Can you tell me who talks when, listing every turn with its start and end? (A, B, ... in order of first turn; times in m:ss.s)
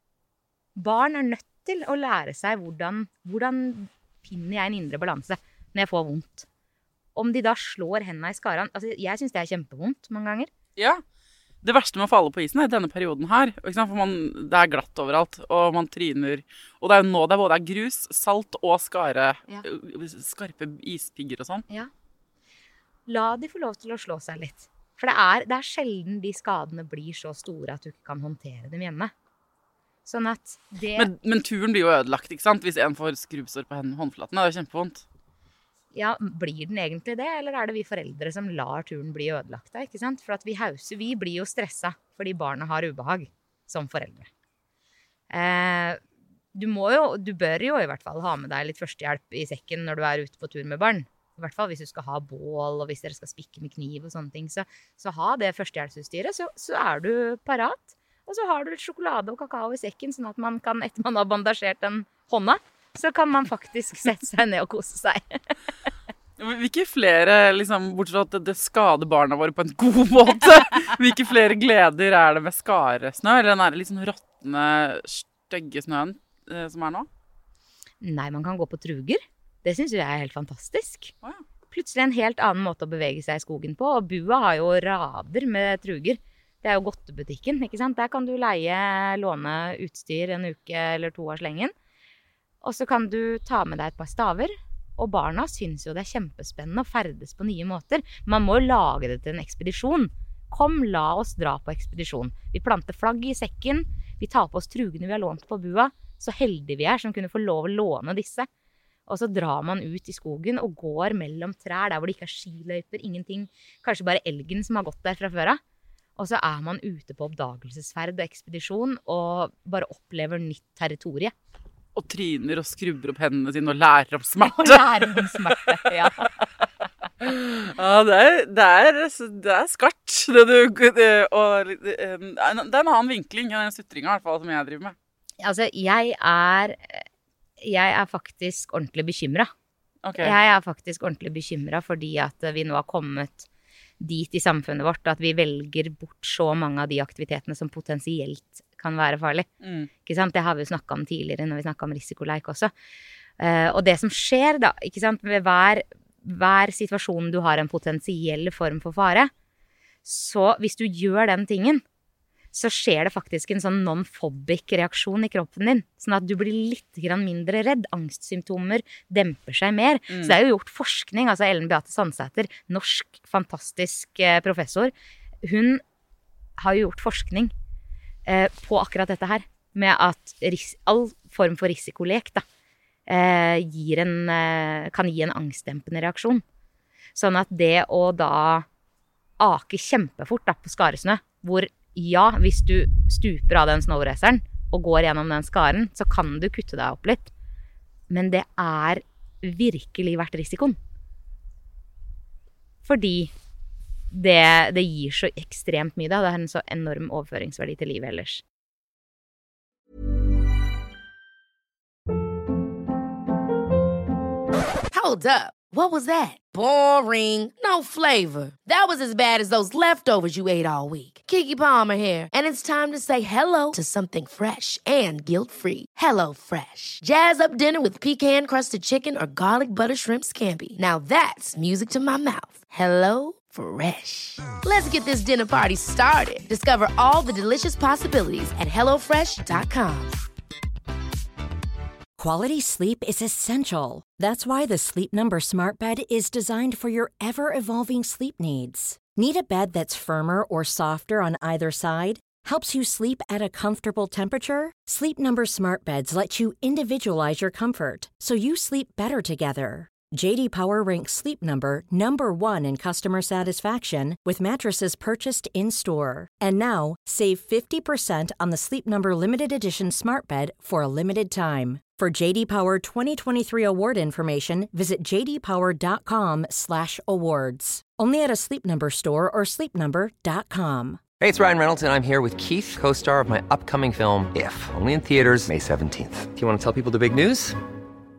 0:00.8-0:06.4 A
0:07.2-0:10.5 A
0:10.8-0:11.0 B
0:11.6-0:21.6 B
0:23.1-0:29.1 A
0:30.0-0:31.1 A
0:31.0-0:35.0 B
0:35.9-0:44.3 A
0:45.3-0:46.0 A
0:46.5-1:05.4 A
1:06.4-1:17.1 B
1:18.0-1:21.1 A
1:21.7-1:31.7 A
1:32.6-1:48.5 A
1:49.1-1:55.6 A
1:56.2-2:01.3 A
2:02.0-2:05.5 B
2:04.4-2:06.5 A
2:07.2-2:14.9 B
2:15.4-2:17.0 A
2:17.6-2:19.5 A
2:20.0-2:20.4 B
2:20.2-2:23.5 A
2:24.0-2:29.5 A
2:29.6-2:29.9 B
2:30.0-2:32.7 A
2:33.4-2:39.3 A
2:40.0-2:41.8 A
2:42.5-2:55.8 A
2:50.1-2:50.4 B
2:56.6-2:57.5 A
2:58.3-3:02.4 A
3:03.1-3:06.4 A
3:07.1-3:08.6 A
3:09.4-3:17.3 A
3:18.1-3:20.8 A
3:22.8-3:23.3 A
3:24.1-3:28.4 A
3:34.9-4:00.1 C
4:02.2-4:41.0 D
4:41.2-4:47.6 E